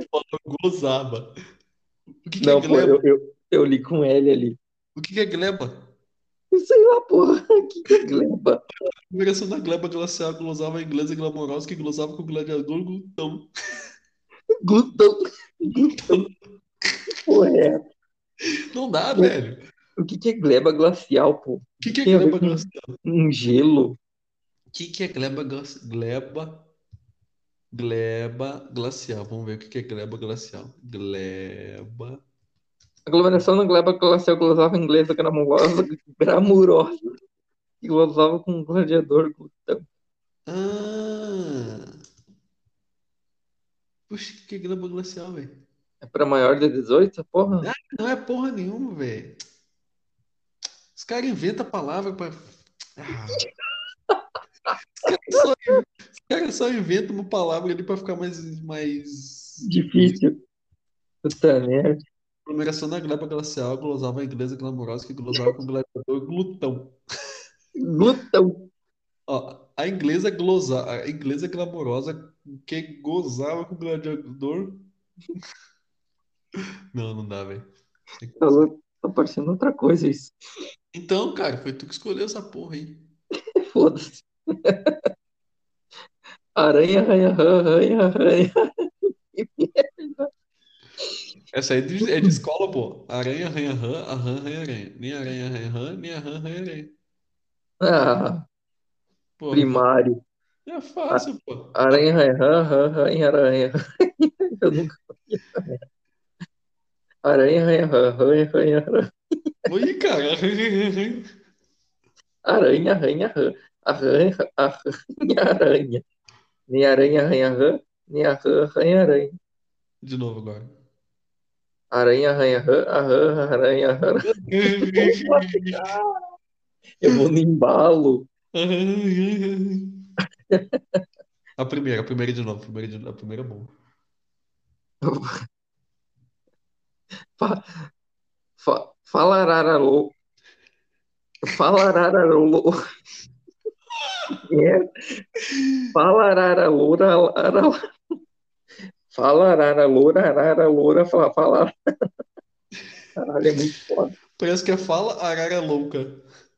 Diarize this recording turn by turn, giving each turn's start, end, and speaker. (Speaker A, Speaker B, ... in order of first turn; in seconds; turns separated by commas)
Speaker A: 0.1-1.3, Speaker A: 2.2-3.0, Speaker B: 2.4-4.6, Speaker A: 5.0-5.9, Speaker B: 6.5-8.6, Speaker A: 9.1-13.5, Speaker B: 14.6-16.3, Speaker B: 17.2-17.8, Speaker A: 18.7-19.6, Speaker B: 20.0-24.0, Speaker A: 21.8-22.9, Speaker A: 24.7-26.7, Speaker A: 27.7-32.2, Speaker B: 33.1-37.1, Speaker B: 37.8-39.9, Speaker A: 40.5-42.0, Speaker A: 44.1-45.6, Speaker B: 46.0-47.7, Speaker A: 47.6-49.4, Speaker A: 51.0-53.5, Speaker B: 54.7-55.5, Speaker A: 55.0-60.2, Speaker B: 59.6-60.4, Speaker B: 61.2-62.0, Speaker A: 62.5-67.0, Speaker B: 67.8-68.7, Speaker A: 69.3-75.5, Speaker A: 76.9-77.7, Speaker A: 78.2-78.7, Speaker B: 78.4-80.3, Speaker A: 80.9-83.1, Speaker B: 83.6-85.1, Speaker B: 86.6-90.3, Speaker A: 91.5-96.9, Speaker B: 92.0-92.4, Speaker B: 97.8-98.5, Speaker A: 99.4-99.9, Speaker B: 99.5-100.2, Speaker A: 100.7-102.1, Speaker B: 101.1-105.8, Speaker B: 107.2-109.1, Speaker A: 109.7-111.3, Speaker B: 112.5-116.0, Speaker B: 116.7-119.3, Speaker A: 120.0-120.7, Speaker B: 121.9-126.3, Speaker A: 124.2-125.9, Speaker B: 127.0-128.3, Speaker A: 128.5-130.1, Speaker B: 130.5-131.0, Speaker A: 131.6-133.7, Speaker B: 135.0-135.4, Speaker B: 137.4-137.9, Speaker B: 138.6-140.1, Speaker B: 141.5-142.7, Speaker A: 144.1-144.3, Speaker B: 144.5-145.2, Speaker A: 145.5-145.8, Speaker B: 145.9-147.8, Speaker B: 149.1-151.7, Speaker B: 153.2-154.1, Speaker A: 154.4-156.2